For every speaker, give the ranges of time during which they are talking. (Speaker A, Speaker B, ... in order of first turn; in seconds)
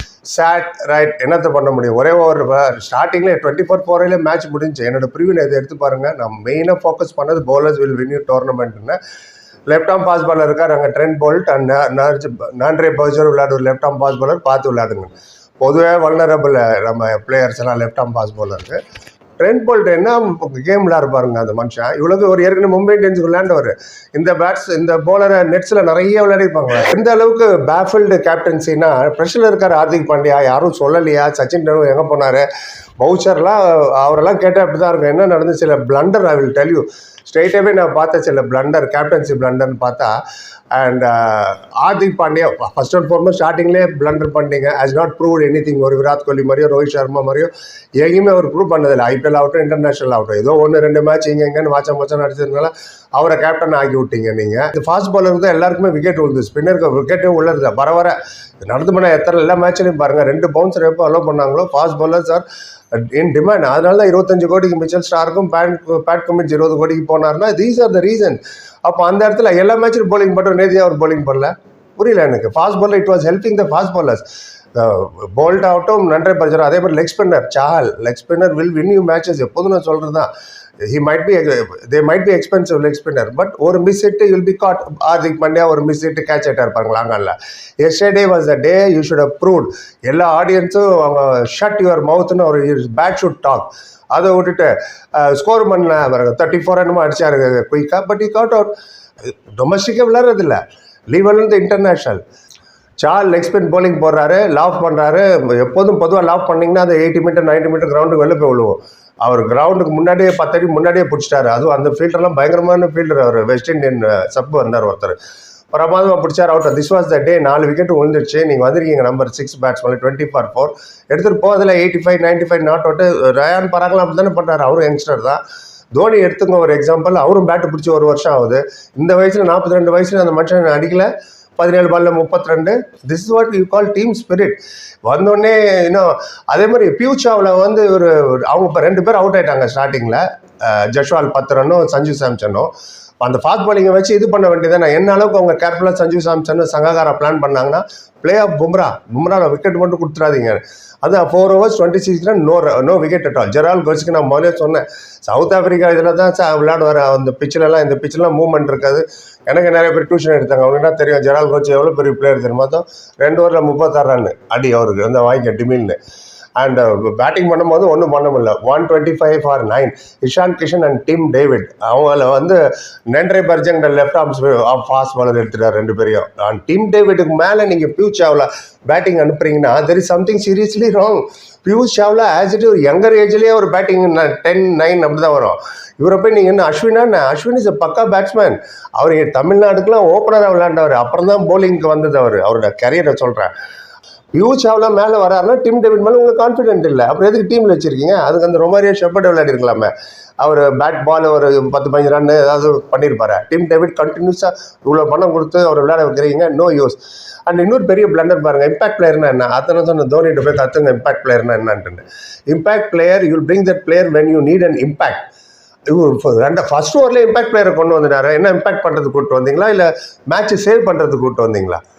Speaker A: 0.3-9.0, 9.7-18.8, 19.4-32.5, 33.0-40.1, 40.7-62.5, 63.0-74.2, 74.8-80.3, 80.9-98.7, 99.2-100.6, 101.1-102.2, 103.0-115.2, 115.7-125.4, 125.9-166.0, 166.6-172.6, 173.1-193.5, 194.3-215.3, 215.9-221.8